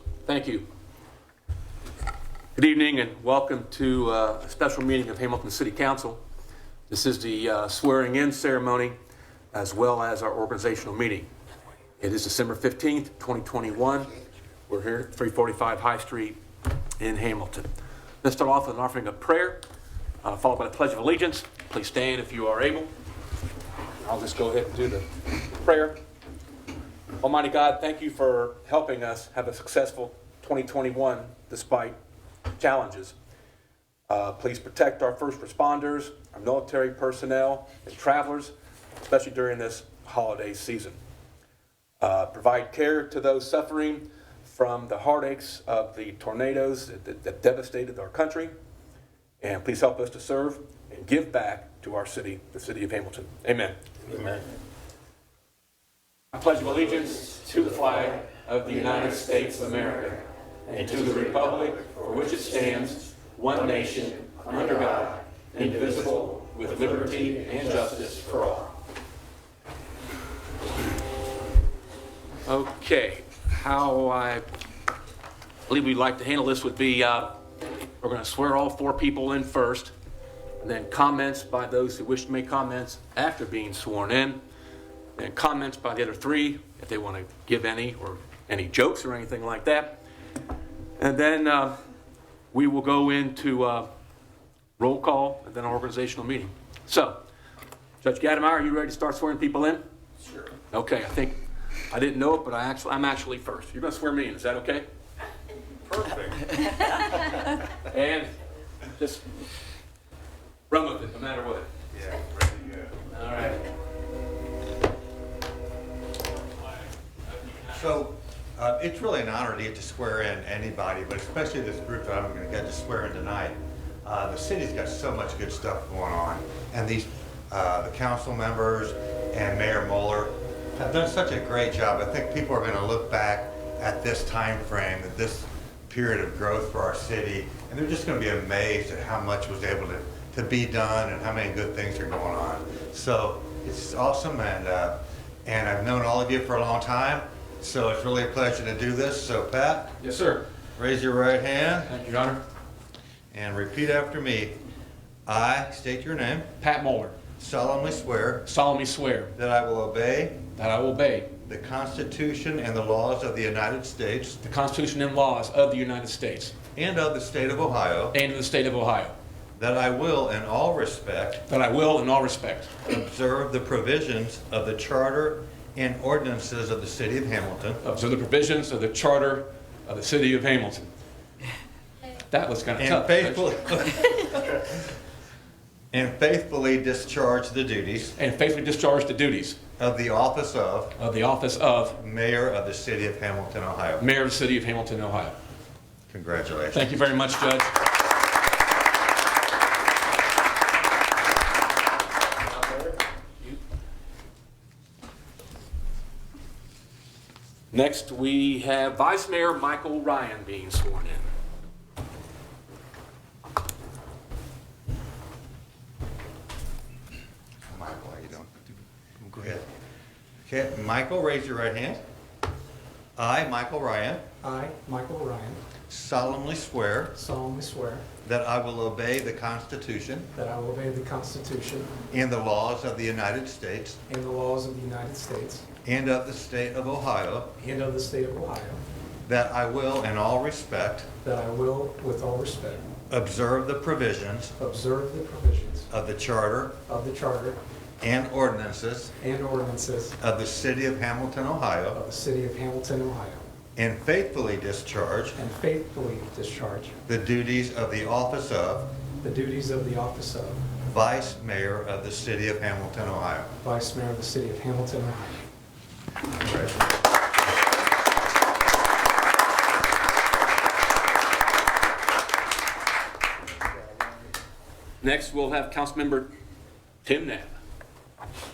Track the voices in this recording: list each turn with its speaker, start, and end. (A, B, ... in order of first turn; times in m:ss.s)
0:00.2-0:00.7 A
0:02.6-0:06.2 A
0:06.9-0:09.0 A
0:09.5-0:11.3 A
0:12.0-0:14.1 A
0:14.7-0:16.4 A
0:17.0-0:17.7 A
0:18.2-0:19.6 A
0:20.2-0:22.9 A
0:24.0-0:26.0 A
0:27.2-0:32.0 A
0:32.6-0:33.1 A
0:34.1-0:38.5 A
0:39.0-0:41.0 A
0:42.0-0:48.5 A
0:49.4-0:54.4 A
0:56.3-1:08.7 A
1:12.4-1:14.4 A
1:15.7-1:17.4 A
1:18.0-1:19.9 A
1:20.6-1:24.4 A
1:25.2-1:30.0 A
1:31.0-1:31.8 A
1:32.5-1:33.9 A
1:34.8-1:37.2 A
1:38.0-1:39.8 A
1:40.7-1:41.4 A
1:41.9-1:44.8 A
1:45.8-1:46.4 B
1:47.9-1:48.3 A
1:49.0-1:49.2 A
1:50.7-1:51.7 A
1:51.9-1:53.0 B
1:53.1-1:53.6 A
1:57.3-1:58.0 A
1:57.7-2:29.9 B
2:30.0-2:30.4 A
2:30.8-2:31.9 B
2:31.8-2:32.4 A
2:33.3-2:34.6 B
2:35.3-2:36.5 B
2:36.6-2:37.2 A
2:37.4-2:38.5 B
2:38.4-2:39.3 A
2:39.4-2:40.5 B
2:40.6-2:41.3 A
2:41.4-2:44.4 B
2:44.4-2:46.5 A
2:46.7-2:48.2 B
2:48.1-2:49.1 A
2:49.6-2:51.4 B
2:51.5-2:52.8 A
2:52.8-2:57.8 B
2:57.8-3:00.9 A
3:02.3-3:03.5 A
3:02.8-3:04.6 B
3:05.9-3:08.2 B
3:08.2-3:09.6 A
3:09.8-3:11.0 B
3:11.0-3:12.0 A
3:12.0-3:14.0 B
3:14.0-3:15.4 A
3:16.1-3:16.9 B
3:16.7-3:17.7 A
3:22.5-3:23.6 A
3:27.7-3:31.3 A
3:37.7-3:39.6 B
3:40.4-3:42.0 B
3:43.2-3:44.2 B
3:44.4-3:45.6 C
3:45.9-3:47.2 B
3:47.1-3:48.0 C
3:48.2-3:50.3 B
3:50.3-3:51.9 C
3:52.1-3:54.0 B
3:54.1-3:55.6 C
3:55.8-3:57.5 B
3:57.6-3:58.8 C
3:59.2-4:01.1 B
4:01.2-4:02.8 C
4:03.1-4:04.5 B
4:04.6-4:05.9 C
4:05.9-4:06.8 B
4:06.8-4:07.6 C
4:08.0-4:09.1 B
4:09.2-4:10.2 C
4:10.2-4:12.0 B
4:11.9-4:13.4 C
4:13.8-4:15.4 B
4:15.4-4:17.0 C
4:17.1-4:18.9 B
4:19.2-4:20.6 C
4:20.9-4:23.5 B
4:23.6-4:25.5 C
4:26.4-4:26.8 B
4:35.0-4:36.3 A
4:37.0-4:37.5 A